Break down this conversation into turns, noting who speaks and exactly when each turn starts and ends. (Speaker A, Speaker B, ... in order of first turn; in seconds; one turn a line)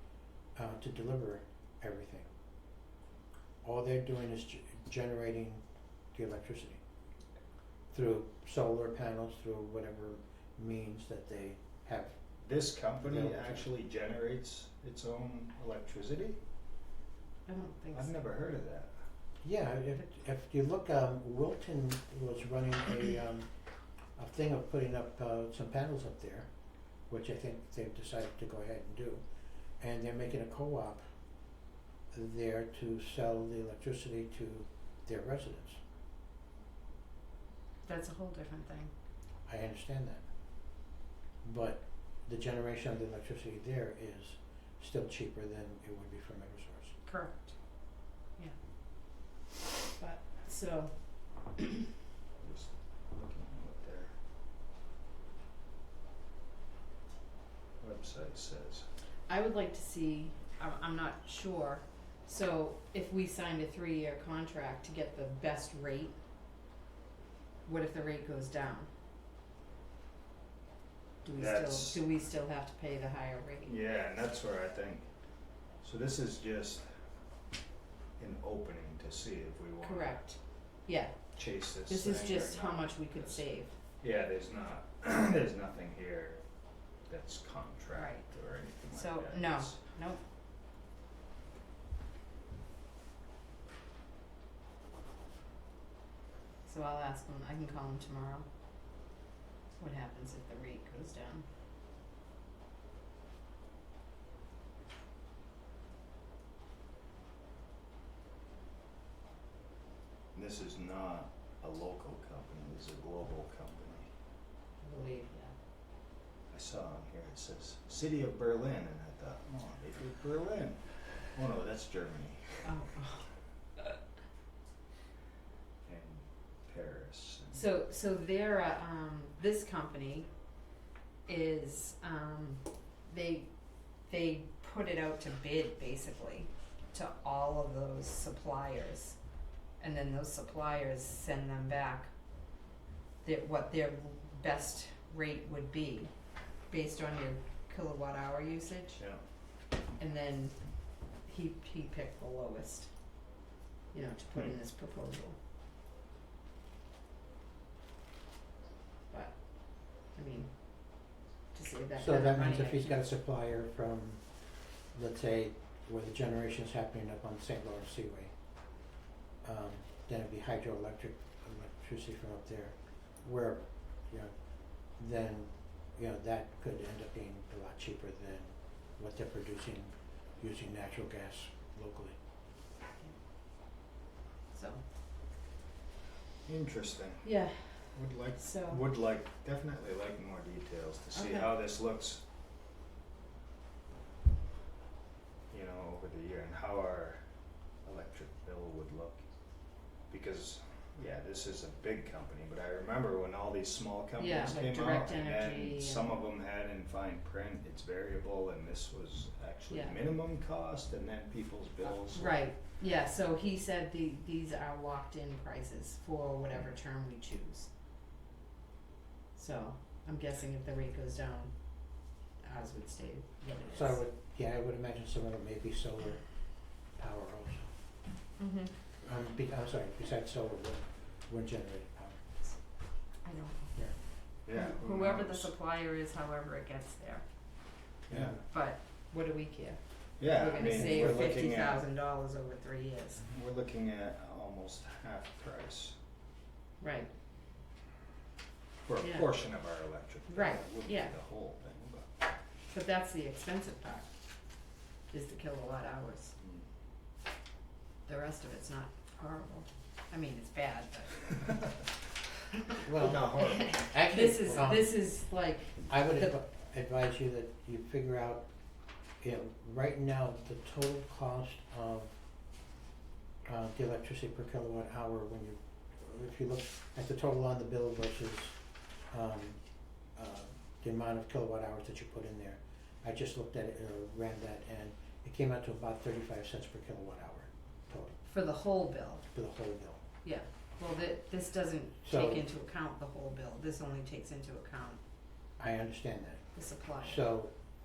Speaker A: 0.6-2.3
Speaker A: 3.6-5.6
Speaker A: 6.1-6.8
Speaker A: 7.9-12.2
Speaker B: 12.4-16.4
Speaker A: 13.0-13.7
Speaker C: 17.5-18.1
Speaker B: 17.9-18.9
Speaker A: 19.4-23.5
Speaker A: 24.1-26.5
Speaker A: 27.1-29.2
Speaker A: 29.8-31.0
Speaker A: 32.1-35.8
Speaker C: 37.8-38.9
Speaker A: 39.5-40.3
Speaker A: 41.4-46.9
Speaker C: 47.0-47.8
Speaker C: 50.0-51.6
Speaker B: 52.4-54.1
Speaker B: 57.8-58.9
Speaker C: 59.3-66.1
Speaker C: 67.6-68.9
Speaker C: 71.2-73.8
Speaker B: 71.3-72.0
Speaker B: 73.7-75.1
Speaker B: 75.8-76.8
Speaker B: 78.2-80.1
Speaker C: 79.8-83.7
Speaker B: 81.3-83.4
Speaker B: 84.0-86.4
Speaker B: 87.0-89.8
Speaker C: 87.9-88.2
Speaker C: 88.9-90.2
Speaker C: 96.6-98.5
Speaker C: 99.8-101.5
Speaker B: 110.3-114.1
Speaker C: 114.8-115.5
Speaker B: 116.5-122.8
Speaker C: 122.6-123.3
Speaker B: 125.8-127.6
Speaker C: 127.5-130.3
Speaker C: 131.2-139.2
Speaker C: 139.8-142.1
Speaker C: 143.2-146.1
Speaker C: 146.7-149.0
Speaker C: 150.0-152.9
Speaker C: 153.9-155.4
Speaker C: 159.1-163.0
Speaker A: 162.0-168.3
Speaker A: 169.4-182.2
Speaker C: 184.5-184.8
Speaker B: 186.4-187.3
Speaker C: 187.2-188.8
Speaker B: 187.9-192.2
Speaker C: 191.1-191.5
Speaker B: 195.5-197.2
Speaker B: 197.8-199.2
Speaker B: 200.1-212.4
Speaker C: 204.2-206.1
Speaker C: 209.7-209.9
Speaker C: 212.1-217.7
Speaker C: 219.3-224.0
Speaker A: 223.7-227.7
Speaker C: 228.4-228.7
Speaker A: 229.0-232.2
Speaker C: 233.1-237.2
Speaker B: 234.4-235.5
Speaker B: 238.1-238.4
Speaker A: 238.1-238.4
Speaker C: 238.4-243.2
Speaker B: 240.2-241.8
Speaker B: 243.3-246.0
Speaker C: 246.8-247.1
Speaker B: 248.8-252.1
Speaker C: 249.0-249.3
Speaker C: 250.3-251.2
Speaker C: 252.7-254.1
Speaker C: 255.1-256.3
Speaker B: 256.4-256.6
Speaker C: 258.1-261.9
Speaker A: 262.8-265.0
Speaker B: 262.9-263.9
Speaker C: 263.0-266.3
Speaker A: 265.8-268.5
Speaker A: 269.2-272.1
Speaker A: 273.4-278.6
Speaker A: 279.1-288.1
Speaker C: 288.2-289.3
Speaker A: 289.3-290.0
Speaker C: 290.2-295.0
Speaker A: 292.0-292.4
Speaker A: 295.6-297.5
Speaker C: 296.5-297.2